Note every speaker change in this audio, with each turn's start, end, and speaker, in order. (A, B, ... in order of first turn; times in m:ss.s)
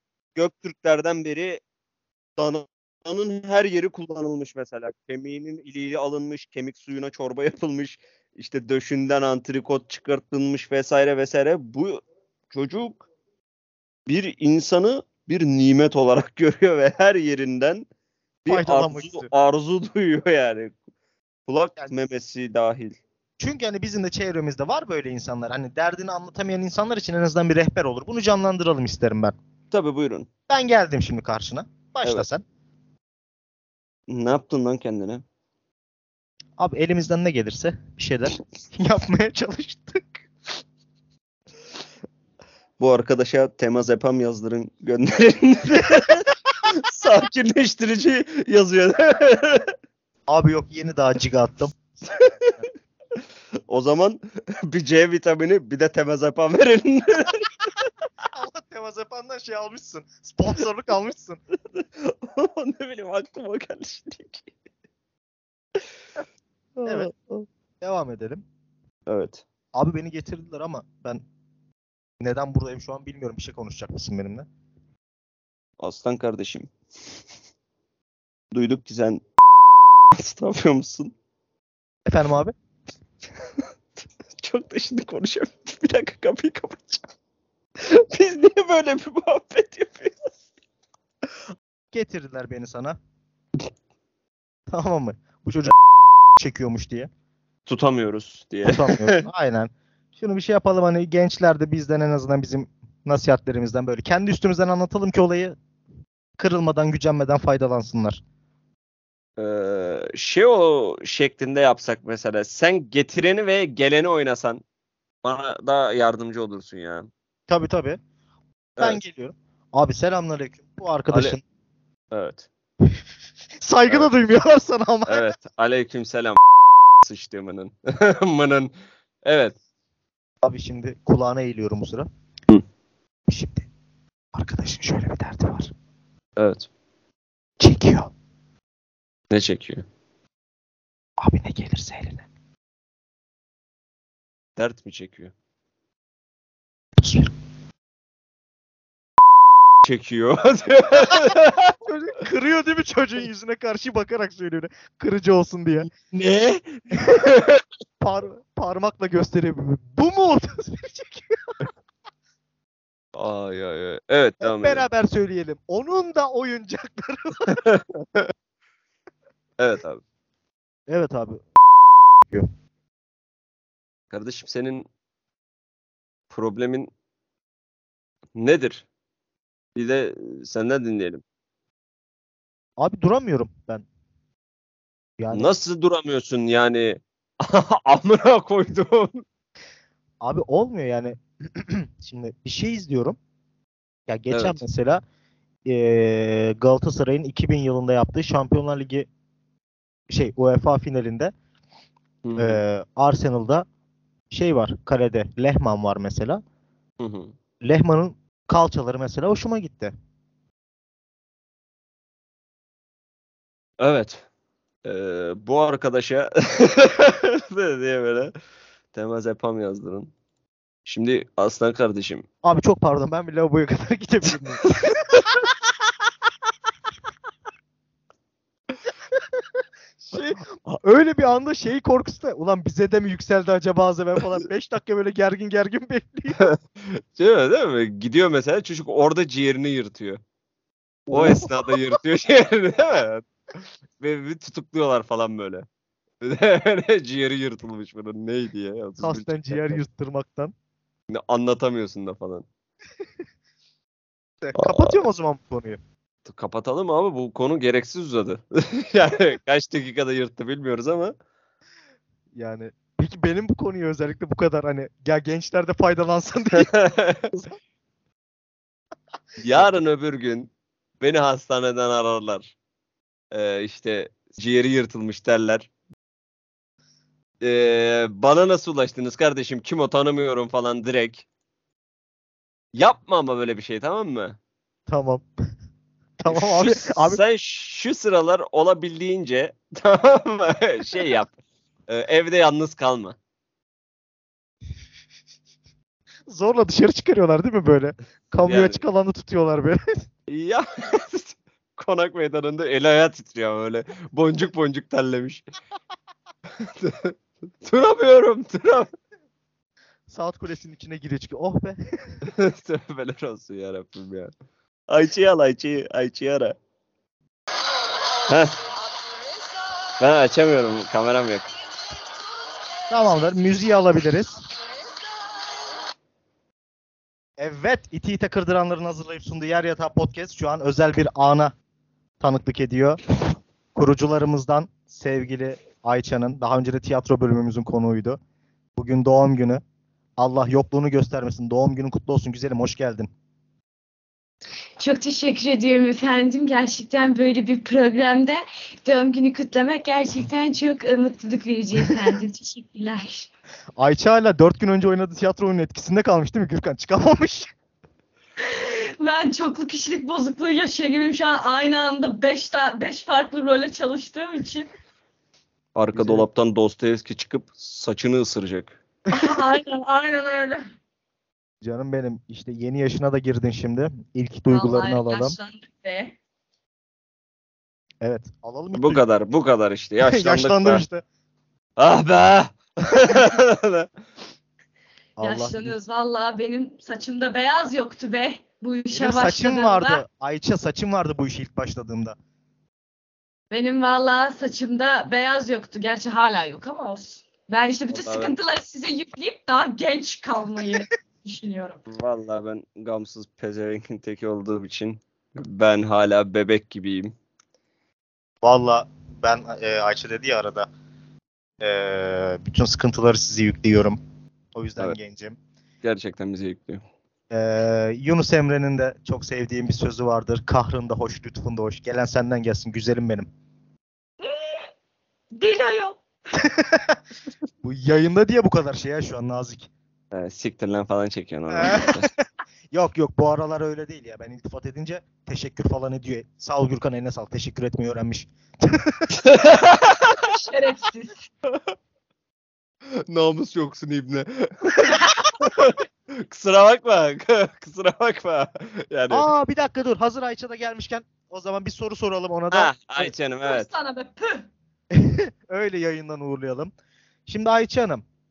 0:00.4-0:01.6 A
0:02.4-0:13.0 A
0:14.1-0:17.9 A
0:18.4-0:20.8 A
0:18.5-0:19.3 B
0:21.5-0:23.0 A
0:23.4-0:29.4 B
0:29.7-0:30.3 A
0:30.5-0:32.4 B
0:34.1-0:35.2 A
0:36.6-0:40.2 B
0:42.8-0:49.7 A
0:50.3-0:52.6 B
0:53.7-0:57.6 A
0:58.3-1:01.4 B
1:01.7-1:04.5 A
1:06.8-1:07.5 A
1:06.8-1:07.1 B
1:07.8-1:08.4 B
1:09.1-1:09.4 A
1:09.8-1:11.2 B
1:12.2-1:14.5 B
1:15.8-1:16.7 A
1:18.5-1:19.2 A
1:20.1-1:21.1 A
1:22.1-1:22.5 B
1:24.4-1:27.0 A
1:27.8-1:30.2 A
1:31.9-1:33.0 B
1:34.7-1:35.7 B
1:36.4-1:37.1 B
1:37.6-1:39.2 A
1:38.6-1:45.6 B
1:46.4-1:48.2 B
1:49.4-1:54.6 A
1:55.2-1:57.1 A
1:57.5-1:58.0 B
1:58.8-2:01.4 B
2:01.1-2:01.4 A
2:02.1-2:02.5 A
2:03.6-2:05.3 B
2:05.1-2:06.4 A
2:07.0-2:08.7 A
2:09.2-2:09.6 A
2:10.4-2:12.1 B
2:13.3-2:13.7 B
2:14.3-2:15.7 B
2:16.4-2:16.7 A
2:17.6-2:18.1 B
2:19.3-2:19.8 A
2:21.2-2:22.2 B
2:24.6-2:25.3 A
2:27.0-2:27.3 B
2:29.8-2:31.7 A
2:31.8-2:35.9 B
2:35.9-2:37.6 A
2:38.0-2:41.5 B
2:43.1-2:44.8 A
2:44.4-2:47.6 B
2:47.6-2:48.3 A
2:49.6-2:50.0 A
2:50.9-2:51.4 B
2:54.1-2:54.9 A
2:56.3-2:56.9 A
2:58.4-2:58.8 A
2:59.8-3:01.2 A
3:02.8-3:03.8 B
3:05.2-3:05.5 B
3:05.3-3:09.2 A
3:10.2-3:13.2 B
3:14.1-3:15.0 B
3:14.3-3:14.6 A
3:15.7-3:19.1 B
3:20.1-3:21.3 B
3:22.2-3:22.6 A
3:22.4-3:23.6 B
3:24.3-3:26.4 B
3:27.0-3:27.3 A
3:27.6-3:29.9 B
3:33.8-3:34.2 A
3:34.8-3:38.3 A
3:38.9-3:40.1 A
3:40.8-3:42.2 A
3:42.4-3:44.7 B
3:50.1-3:56.4 B
3:56.4-4:00.2 A
4:01.1-4:01.8 B
4:01.1-4:03.3 A
4:04.0-4:05.6 A
4:06.2-4:09.8 A
4:09.0-4:10.5 B
4:11.1-4:12.5 A
4:14.4-4:15.8 B
4:14.6-4:14.9 A
4:16.2-4:21.1 A
4:22.4-4:26.7 B
4:26.5-4:27.3 A
4:29.4-4:32.5 A
4:33.3-4:35.7 A
4:37.4-4:41.2 A
4:42.8-4:44.4 A
4:44.9-4:45.2 B
4:46.2-4:47.2 B
4:46.3-4:51.3 A
4:51.9-4:53.2 A
4:56.3-4:59.9 B
4:58.4-4:58.8 A
5:00.3-5:05.4 A
5:06.5-5:08.9 A
5:10.1-5:12.2 B
5:12.2-5:14.3 A
5:14.9-5:16.6 A
5:18.3-5:18.6 A
5:20.0-5:21.5 A
5:22.9-5:24.4 B
5:27.4-5:31.5 B
5:32.2-5:33.0 B
5:33.8-5:38.2 B
5:38.8-5:39.6 B
5:40.2-5:43.1 B
5:44.8-5:53.3 C
5:53.8-5:57.5 B
5:58.4-6:04.7 C
6:05.8-6:08.8 A
6:05.9-6:06.2 B
6:09.1-6:10.7 C
6:11.6-6:15.4 B
6:14.5-6:16.1 C
6:18.0-6:19.0 B
6:18.7-6:20.8 A
6:20.0-6:21.0 B
6:21.8-6:23.9 A
6:25.2-6:25.7 B
6:25.2-6:30.0 C
6:28.9-6:32.2 B
6:33.5-6:41.8 C
6:37.9-6:38.3 A
6:41.9-6:47.1 A
6:48.4-6:50.7 B
6:51.6-6:54.0 B
6:54.6-6:55.4 B
6:55.8-6:56.8 A
6:57.3-7:03.3 B
7:04.2-7:04.6 C
7:05.3-7:06.0 C
7:06.4-7:07.0 B
7:07.6-7:09.7 B
7:10.1-7:12.1 A
7:11.5-7:12.2 B
7:12.7-7:19.2 B
7:19.2-7:20.3 A
7:20.2-7:21.2 C
7:22.9-7:29.3 A
7:29.1-7:33.1 B
7:32.5-7:33.7 A
7:33.4-7:34.5 C
7:34.9-7:36.7 B
7:37.3-7:38.0 B